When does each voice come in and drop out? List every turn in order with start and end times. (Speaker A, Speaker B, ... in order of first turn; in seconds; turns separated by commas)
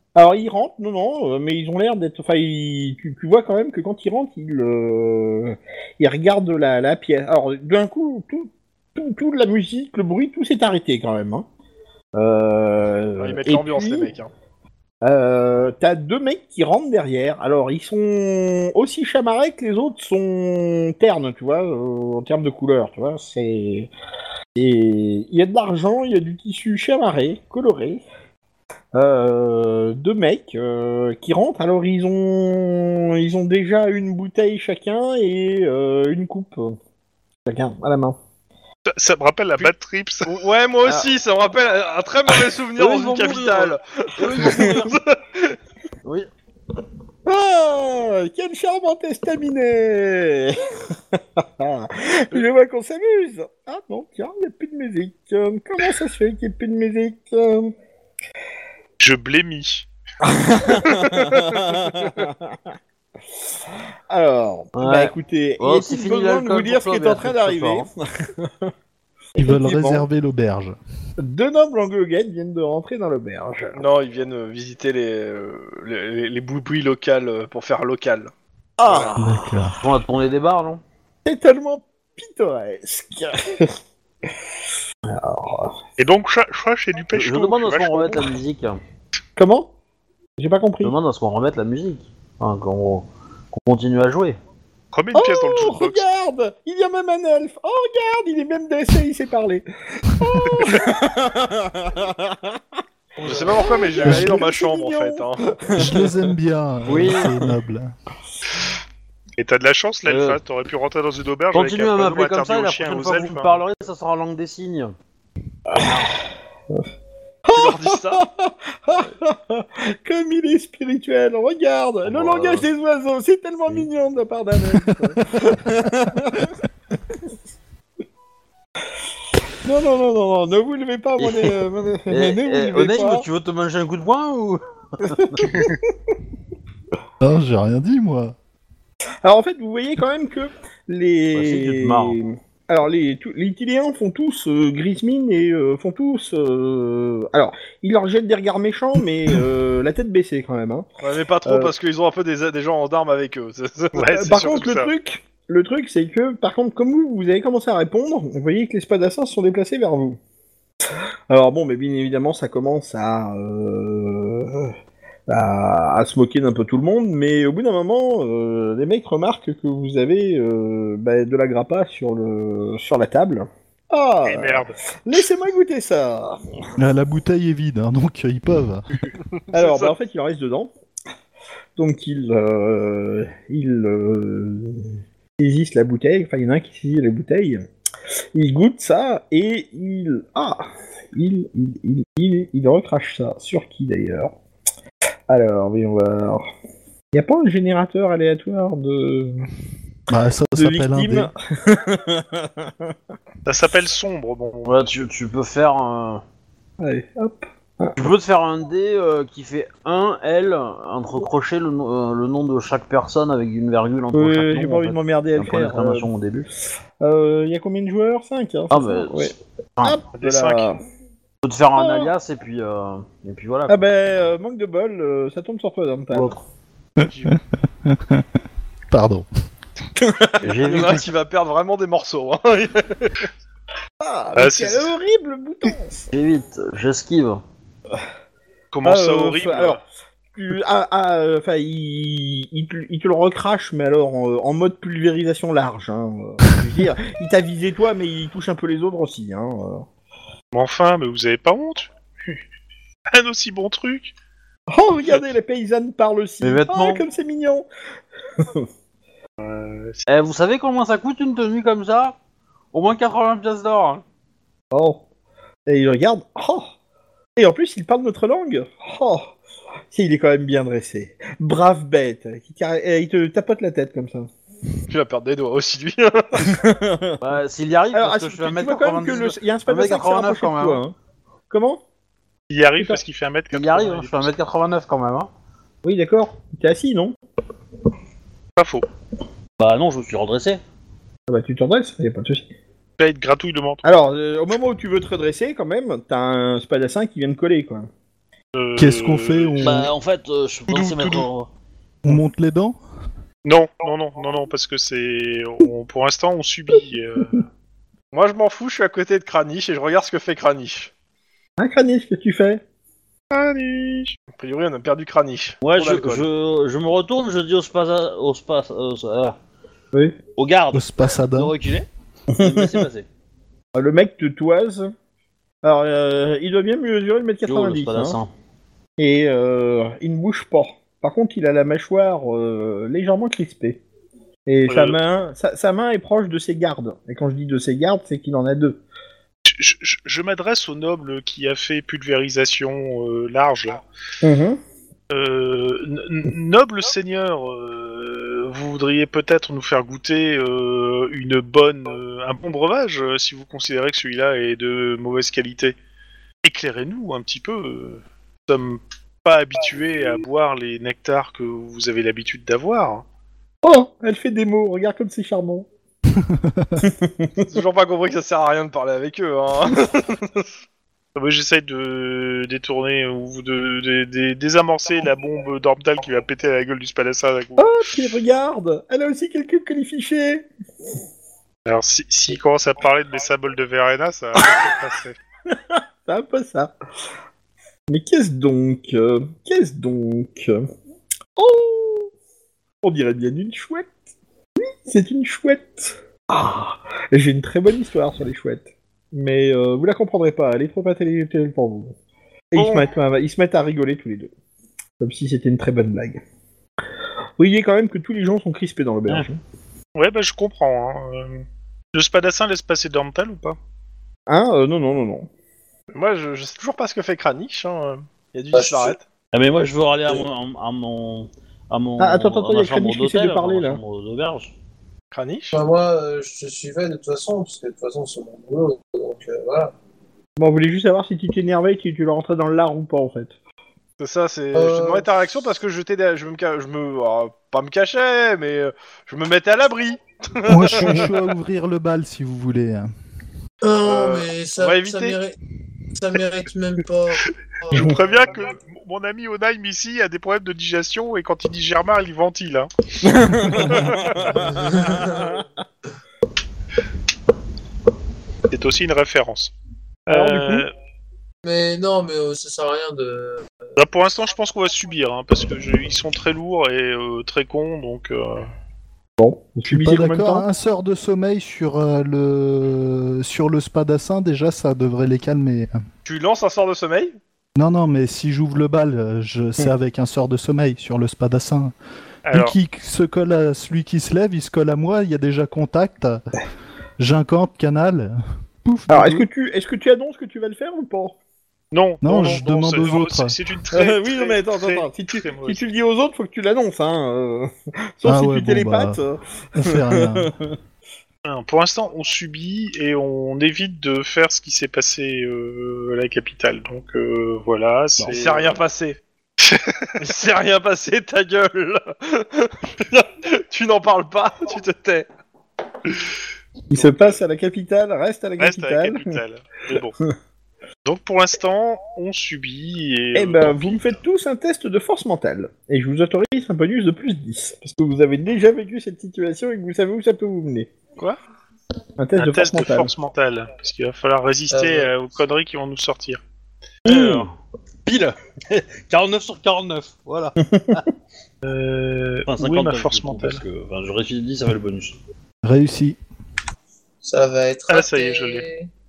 Speaker A: 0.1-11.5, Speaker A: 12.2-14.1, Speaker B: 13.2-14.3, Speaker A: 15.0-23.9, Speaker A: 24.6-28.0, Speaker A: 28.9-36.8, Speaker A: 37.5-38.2, Speaker C: 38.9-40.4, Speaker B: 40.3-45.6, Speaker D: 42.8-45.0, Speaker A: 44.4-44.8, Speaker A: 47.3-57.7, Speaker C: 59.0-59.9, Speaker A: 60.2-62.6, Speaker A: 64.1-68.7, Speaker D: 64.8-67.9, Speaker A: 69.4-70.0, Speaker E: 69.4-70.8, Speaker A: 71.2-73.8, Speaker B: 73.8-78.3, Speaker A: 78.8-79.5, Speaker D: 79.0-80.8, Speaker E: 79.2-79.8, Speaker A: 81.2-83.8, Speaker A: 85.1-85.8, Speaker C: 86.0-88.3, Speaker D: 87.1-88.8, Speaker A: 89.4-89.7, Speaker A: 90.4-91.0, Speaker D: 90.8-94.4, Speaker C: 94.9-96.0, Speaker A: 95.1-102.6, Speaker B: 103.2-105.5, Speaker A: 103.2-106.3, Speaker E: 104.0-104.4, Speaker E: 105.8-107.9, Speaker D: 106.9-107.5, Speaker C: 109.4-113.6, Speaker D: 110.1-110.4, Speaker D: 111.5-114.9, Speaker D: 115.8-116.1, Speaker A: 117.5-126.6, Speaker B: 117.5-118.2, Speaker D: 122.0-122.7, Speaker E: 124.8-125.1, Speaker A: 129.6-133.3, Speaker D: 131.2-131.6, Speaker D: 132.1-135.5, Speaker A: 135.2-135.9, Speaker E: 137.2-138.4, Speaker A: 139.2-150.9, Speaker D: 141.3-142.2, Speaker B: 151.0-153.9, Speaker A: 151.5-151.7, Speaker C: 153.9-154.9, Speaker A: 154.0-160.2, Speaker A: 161.3-164.7, Speaker A: 165.3-176.4, Speaker C: 174.2-174.8, Speaker E: 176.8-179.0, Speaker B: 179.5-179.9, Speaker A: 179.5-180.7, Speaker A: 181.8-187.6, Speaker A: 188.3-194.3, Speaker A: 195.3-196.5, Speaker A: 197.1-199.5, Speaker E: 200.1-201.3, Speaker A: 200.6-202.9, Speaker C: 203.4-204.9, Speaker D: 204.7-206.2, Speaker A: 206.8-207.9, Speaker D: 208.0-216.5, Speaker A: 214.1-216.1, Speaker A: 217.0-220.8, Speaker D: 218.7-220.0, Speaker C: 220.2-220.7, Speaker D: 221.4-223.8, Speaker A: 221.8-222.1, Speaker A: 223.7-226.4, Speaker D: 226.1-226.4, Speaker E: 227.1-228.2, Speaker E: 228.9-229.3, Speaker A: 230.0-231.0, Speaker D: 230.4-231.1, Speaker B: 230.6-233.3, Speaker A: 234.0-236.1, Speaker C: 234.4-234.9, Speaker D: 236.1-237.4, Speaker C: 238.7-239.8, Speaker A: 238.8-239.8, Speaker A: 240.3-249.9, Speaker C: 250.5-252.4, Speaker C: 253.1-254.1, Speaker A: 254.7-257.7, Speaker D: 256.4-257.1, Speaker A: 258.4-258.7, Speaker C: 259.4-260.0, Speaker D: 260.1-262.2, Speaker D: 262.7-264.0, Speaker A: 264.7-265.0, Speaker A: 265.7-266.7, Speaker A: 267.4-269.4, Speaker A: 269.9-274.3, Speaker B: 274.9-276.6, Speaker A: 276.4-277.2, Speaker D: 277.2-280.8, Speaker A: 277.9-280.9, Speaker A: 281.5-281.8, Speaker C: 282.5-284.3, Speaker D: 283.5-285.3, Speaker A: 285.8-287.1, Speaker C: 288.6-288.9, Speaker D: 289.6-290.6, Speaker A: 291.3-292.5, Speaker C: 293.0-293.9, Speaker A: 293.9-297.9, Speaker C: 298.5-299.9, Speaker E: 298.8-299.9, Speaker D: 299.6-301.5, Speaker C: 300.7-301.3, Speaker E: 302.0-302.8, Speaker C: 303.4-307.4, Speaker B: 308.1-310.9, Speaker A: 311.6-312.6, Speaker C: 313.3-314.1, Speaker B: 314.4-316.2, Speaker D: 315.6-319.4, Speaker D: 320.4-323.1, Speaker E: 320.7-321.5, Speaker A: 322.4-322.9, Speaker A: 323.8-324.9, Speaker A: 325.6-328.2, Speaker D: 327.5-328.3, Speaker A: 329.0-333.8, Speaker A: 334.5-338.8, Speaker C: 334.7-335.0, Speaker C: 339.5-343.8, Speaker A: 344.2-344.6, Speaker C: 345.1-355.8, Speaker C: 356.4-363.0, Speaker A: 363.6-365.7, Speaker E: 366.2-366.8, Speaker A: 366.8-367.5, Speaker B: 367.5-370.5, Speaker C: 371.1-377.8, Speaker A: 377.6-380.5, Speaker C: 381.7-385.2, Speaker A: 384.4-384.7, Speaker A: 385.5-386.8, Speaker A: 387.9-390.6, Speaker A: 391.4-392.1, Speaker A: 392.8-393.9, Speaker A: 394.6-402.0, Speaker A: 402.5-404.3, Speaker C: 402.6-402.9, Speaker A: 405.0-406.2, Speaker A: 407.4-409.4, Speaker C: 410.0-413.6, Speaker A: 414.3-415.3, Speaker B: 415.9-419.0, Speaker F: 418.5-418.9, Speaker D: 419.3-424.5, Speaker A: 422.0-423.8, Speaker B: 425.1-425.6, Speaker F: 425.5-429.7, Speaker A: 430.4-433.3, Speaker B: 434.0-441.2, Speaker F: 434.6-435.1, Speaker E: 440.5-442.9, Speaker F: 443.6-445.4, Speaker B: 443.8-445.2, Speaker F: 446.0-448.2, Speaker C: 447.7-452.7, Speaker A: 453.1-455.2, Speaker C: 453.4-454.5, Speaker F: 454.6-455.4, Speaker C: 458.5-459.5, Speaker C: 460.1-460.7, Speaker A: 460.1-460.7, Speaker F: 461.4-463.5, Speaker C: 463.8-468.5, Speaker A: 469.2-470.5, Speaker E: 469.7-475.8, Speaker B: 476.1-477.2, Speaker E: 477.6-481.7, Speaker C: 482.3-482.6, Speaker E: 482.3-486.2, Speaker E: 487.0-489.3, Speaker A: 488.9-491.2, Speaker C: 491.7-495.7, Speaker E: 492.0-493.4, Speaker A: 493.7-500.5, Speaker E: 498.1-499.0, Speaker E: 499.6-500.3, Speaker C: 501.2-508.6, Speaker B: 508.1-509.0, Speaker C: 509.4-510.0, Speaker B: 510.0-515.1, Speaker A: 516.7-519.2, Speaker C: 516.7-517.2, Speaker C: 518.4-520.0, Speaker C: 520.9-523.9, Speaker A: 523.1-530.7, Speaker A: 532.0-532.9, Speaker C: 532.2-536.2, Speaker F: 534.5-534.9, Speaker D: 536.9-537.3, Speaker A: 536.9-537.3, Speaker D: 537.9-540.8, Speaker A: 540.5-540.8, Speaker C: 541.4-543.4, Speaker D: 542.3-545.0, Speaker E: 545.4-546.0, Speaker F: 547.0-548.7, Speaker C: 547.7-548.5